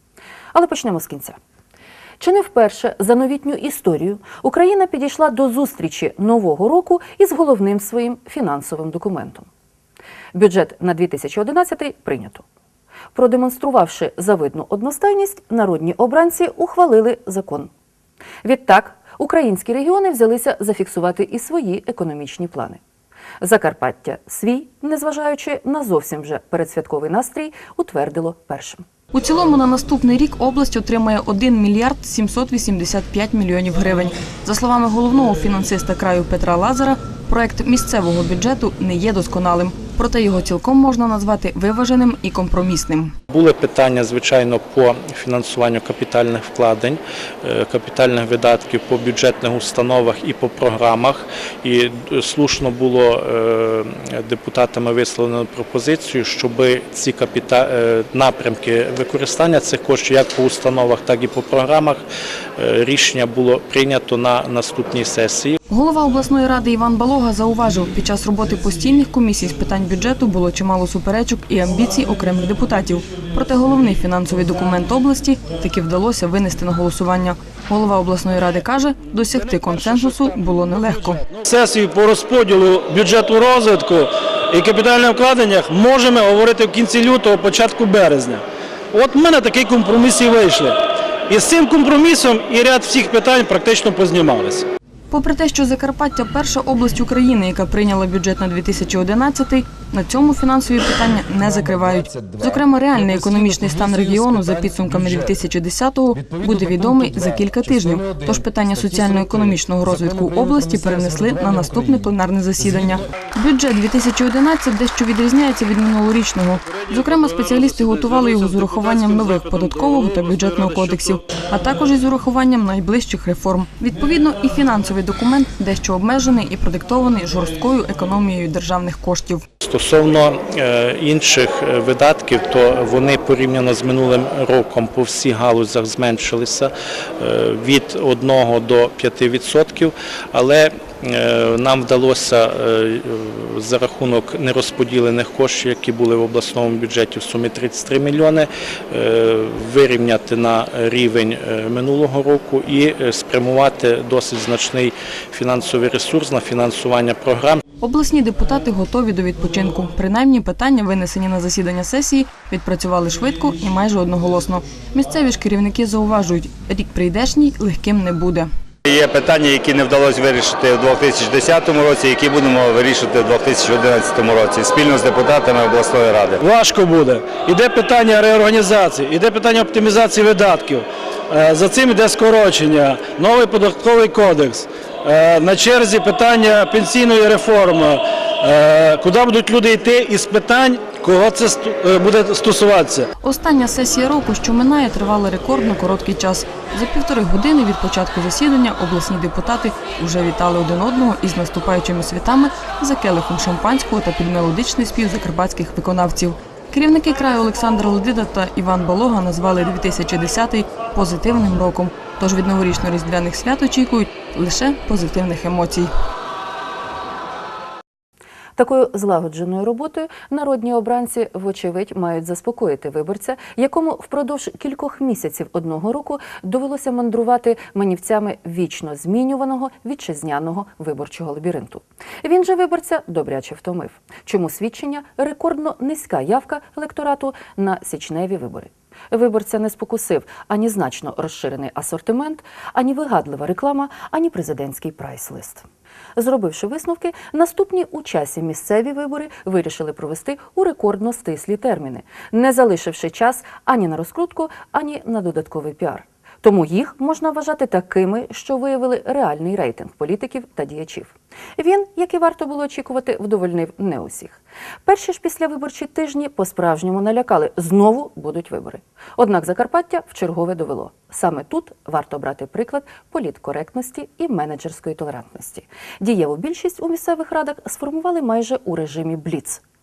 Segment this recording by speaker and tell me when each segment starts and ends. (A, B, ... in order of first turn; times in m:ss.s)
0:00.5-0:01.4 A
0:02.2-0:09.5 A
0:10.3-0:12.4 A
0:13.1-0:17.7 A
0:18.4-0:22.8 A
0:23.4-0:28.8 A
0:29.1-0:43.1 B
0:43.3-1:02.0 C
1:02.6-1:05.6 C
1:05.7-1:21.2 B
1:21.4-1:30.8 D
1:31.3-1:34.6 D
1:35.1-2:09.4 B
2:09.6-2:37.6 C
2:37.8-2:48.5 B
2:48.8-2:56.4 E
2:56.4-3:13.1 D
3:13.2-3:35.9 B
3:38.6-4:39.6 A